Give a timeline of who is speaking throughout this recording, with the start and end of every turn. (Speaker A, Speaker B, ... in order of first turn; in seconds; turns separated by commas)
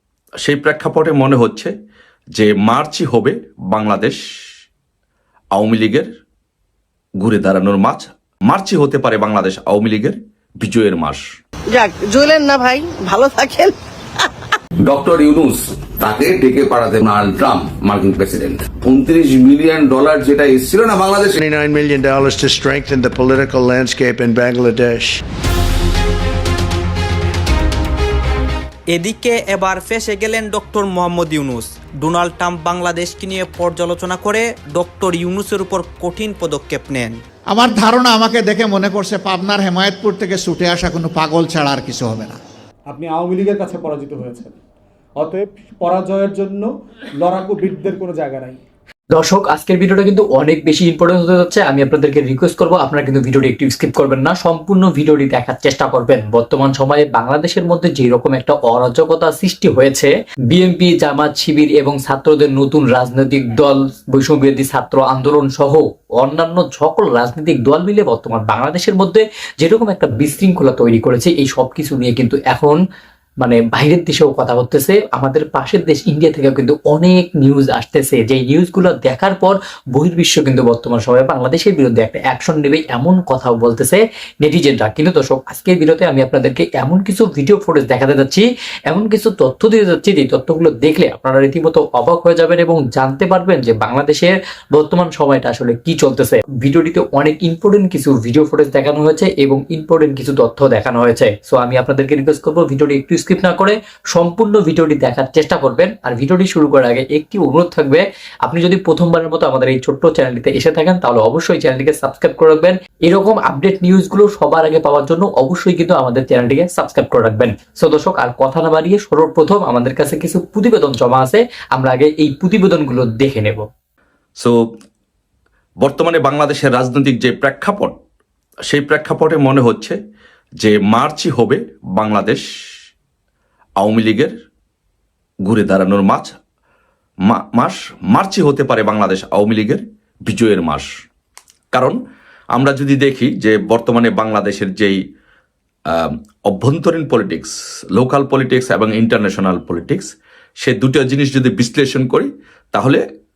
Speaker A: 0.5-1.7, Speaker A: 2.4-4.2, Speaker A: 5.5-6.1, Speaker A: 7.2-11.2, Speaker B: 11.7-13.8, Speaker C: 14.8-21.4, Speaker D: 21.4-25.2, Speaker E: 28.9-37.2, Speaker F: 37.5-42.4, Speaker G: 42.9-44.6, Speaker G: 45.2-46.7, Speaker G: 47.2-48.6, Speaker H: 49.1-72.8, Speaker H: 73.4-123.7, Speaker A: 125.8-127.9, Speaker A: 128.7-130.0, Speaker A: 130.6-132.4, Speaker A: 133.8-134.3, Speaker A: 135.5-136.3, Speaker A: 137.3-140.9, Speaker A: 141.7-142.0, Speaker A: 142.6-145.0, Speaker A: 145.9-150.1, Speaker A: 150.6-153.0